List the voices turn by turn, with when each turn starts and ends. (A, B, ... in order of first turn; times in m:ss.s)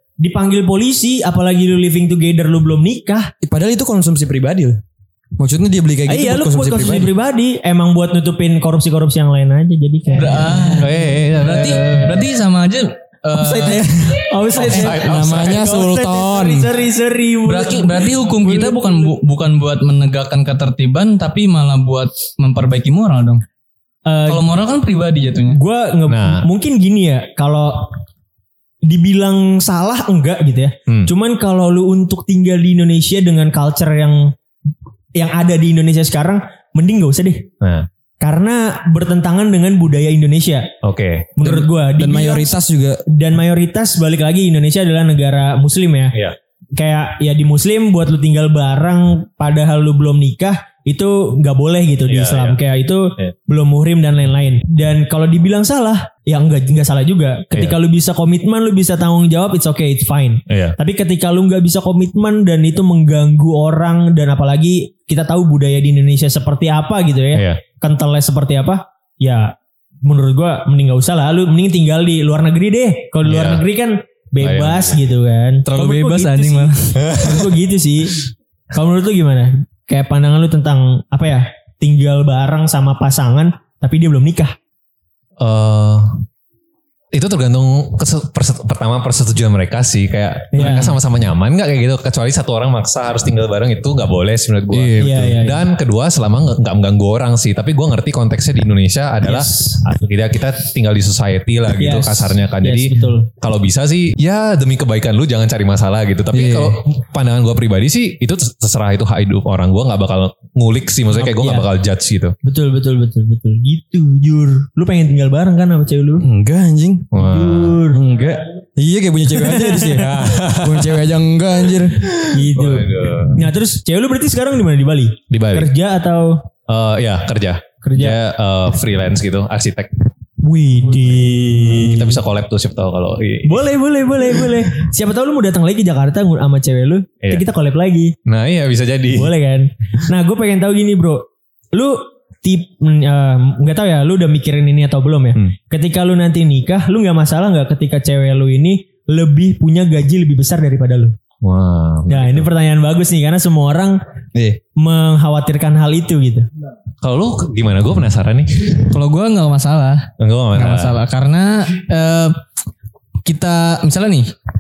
0:00.2-0:03.3 A
0:03.4-0:04.8 B
0:05.4-0:07.1 B
0:06.1-0:10.8 A
0:10.2-0:13.9 C
0:10.8-0:12.2 D
0:13.4-0:19.1 A
0:14.5-0:15.0 C
0:14.6-0:15.7 D
0:14.8-0:16.7 B
0:17.4-0:23.4 C
0:24.0-0:24.4 A
0:24.2-0:25.6 C
0:25.5-0:27.9 A
0:26.1-0:26.4 D
0:28.8-0:34.3 A
0:30.9-0:31.1 D
0:35.1-0:37.5 A
0:37.6-0:37.9 D
0:38.2-0:40.7 A
0:40.8-0:41.3 D
0:41.4-0:42.5 A
0:41.4-0:43.0 B
0:43.1-0:46.2 A
0:46.8-1:24.6 A
0:52.1-0:52.6 D
1:00.5-1:00.8 D
1:07.3-1:07.6 D
1:13.2-1:13.6 D
1:14.4-1:15.0 D
1:15.6-1:17.1 C
1:17.0-1:17.4 D
1:25.4-1:26.2 D
1:27.1-1:52.3 D
1:30.5-1:31.0 A
1:35.0-1:35.6 A
1:39.2-1:39.8 A
1:41.8-1:43.3 A
1:46.3-1:46.8 B
1:51.1-1:51.7 A
1:52.4-1:56.2 A
1:56.2-1:57.1 B
1:57.1-1:57.8 D
1:57.1-1:58.0 A
1:57.9-2:02.2 B
1:59.8-2:01.0 D
2:02.2-2:03.4 D
2:02.3-2:06.4 A
2:05.3-2:05.7 D
2:06.7-2:09.9 D
2:07.8-2:08.2 A
2:10.4-2:12.2 A
2:11.6-2:13.6 D
2:13.4-2:18.1 A
2:18.2-2:19.3 D
2:19.1-2:31.2 A
2:31.4-2:32.5 D
2:32.1-2:34.0 A
2:34.3-2:34.6 B
2:34.8-2:36.5 A
2:37.0-2:38.9 D
2:38.9-2:42.4 C
2:40.2-2:41.0 D
2:43.2-2:44.3 C